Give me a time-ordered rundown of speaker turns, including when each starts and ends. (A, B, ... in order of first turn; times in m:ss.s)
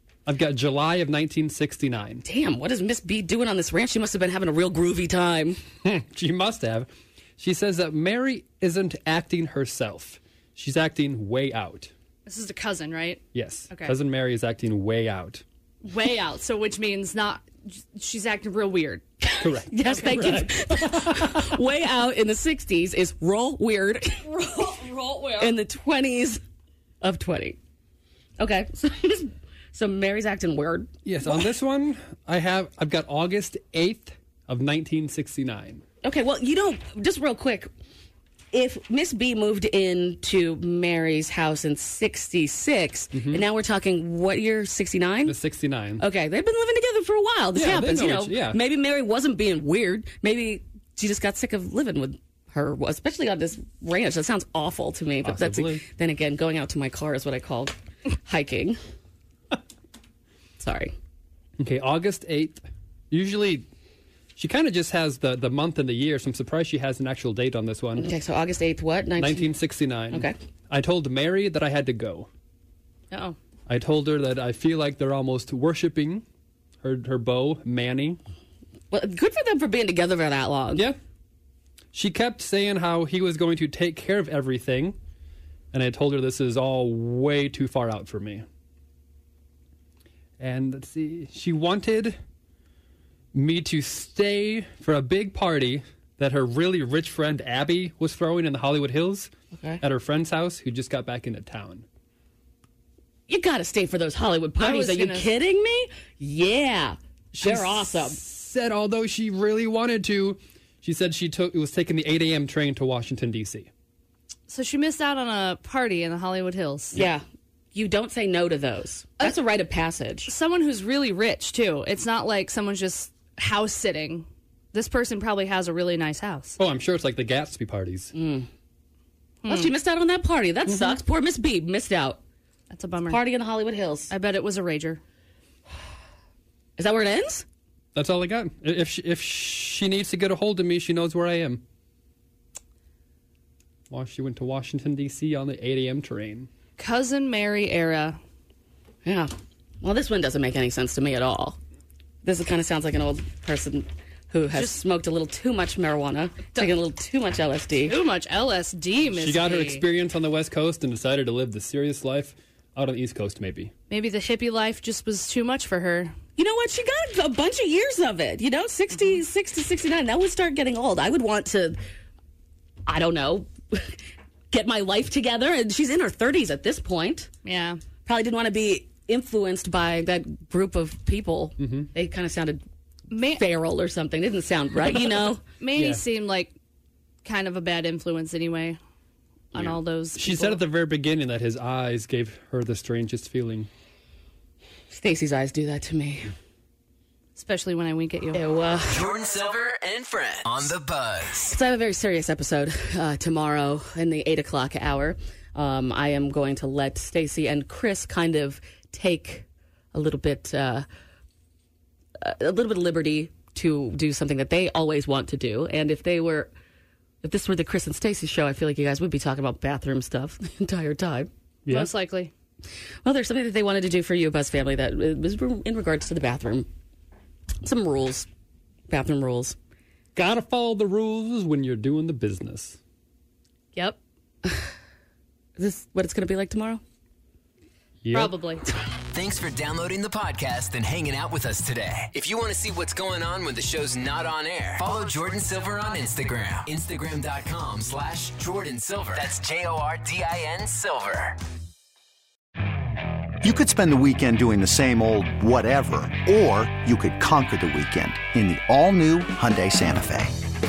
0:00.2-0:02.2 A
0:02.2-0:05.6 B
0:05.8-0:11.9 A
0:12.2-0:13.9 C
0:13.3-0:15.4 A
0:15.8-0:19.0 C
0:19.3-0:24.7 B
0:19.4-0:21.6 A
0:19.8-0:20.4 C
0:24.3-0:25.5 C
0:25.4-0:26.4 B
0:27.0-0:27.6 B
0:28.4-0:31.5 B
0:31.0-0:35.8 A
0:36.0-0:37.7 B
0:38.5-0:45.4 B
0:43.1-0:43.4 A
0:45.2-0:46.0 A
0:46.0-0:57.7 B
0:47.5-0:48.6 A
0:55.2-0:55.8 A
0:58.2-0:58.8 B
1:00.6-1:00.9 B
1:01.6-1:03.6 A
1:04.4-1:08.1 A
1:08.0-1:09.5 B
1:09.2-1:12.3 A
1:13.1-1:13.4 C
1:13.7-1:16.2 A
1:16.8-1:18.2 A
1:18.9-1:20.8 B
1:21.9-1:25.0 A
1:25.7-1:28.4 A
1:30.4-1:32.2 A
1:33.3-1:39.3 A
1:39.6-1:39.8 B
1:39.8-1:41.8 A
1:43.3-1:48.2 B
1:44.6-1:45.3 C
1:47.3-1:53.7 A
1:54.5-1:57.0 C
1:56.9-2:00.3 B
2:00.3-2:06.6 C
2:06.6-2:08.1 A
2:08.1-2:08.5 B
2:09.4-2:09.7 C
2:09.5-2:12.2 B
2:10.7-2:11.0 A
2:12.7-2:13.2 C
2:13.1-2:14.1 B
2:14.1-2:15.0 C
2:16.8-2:17.4 B
2:17.9-2:21.6 A
2:23.9-2:26.5 A
2:26.8-2:28.2 C
2:29.0-2:29.3 B
2:29.8-2:31.6 B
2:32.2-2:38.0 B
2:34.5-2:34.8 C
2:37.8-2:39.8 C
2:39.1-2:43.7 A
2:43.9-2:46.1 C
2:46.4-2:51.8 B
2:52.8-2:54.0 B
2:54.5-2:57.3 B
2:57.4-2:57.8 C
2:58.0-3:02.6 B
3:01.6-3:01.9 A
3:03.1-3:03.4 C
3:03.3-3:05.4 B
3:05.6-3:06.5 C
3:05.8-3:06.0 A
3:07.2-3:08.8 C
3:09.5-3:10.6 C
3:09.6-3:13.7 A
3:14.9-3:16.3 B
3:17.4-3:18.4 C
3:18.3-3:19.1 B
3:18.9-3:21.5 D
3:21.4-3:30.8 B
3:32.2-3:36.5 B
3:37.2-3:41.3 B
3:41.6-3:41.9 A
3:41.7-3:42.3 C
3:43.0-3:46.7 B
3:47.6-3:48.3 B
3:48.9-3:49.6 B
3:50.1-3:52.8 A
3:55.6-3:56.8 B
3:58.0-3:58.3 A
3:58.1-3:58.6 C
3:59.1-4:11.4 D
4:13.4-4:20.4 E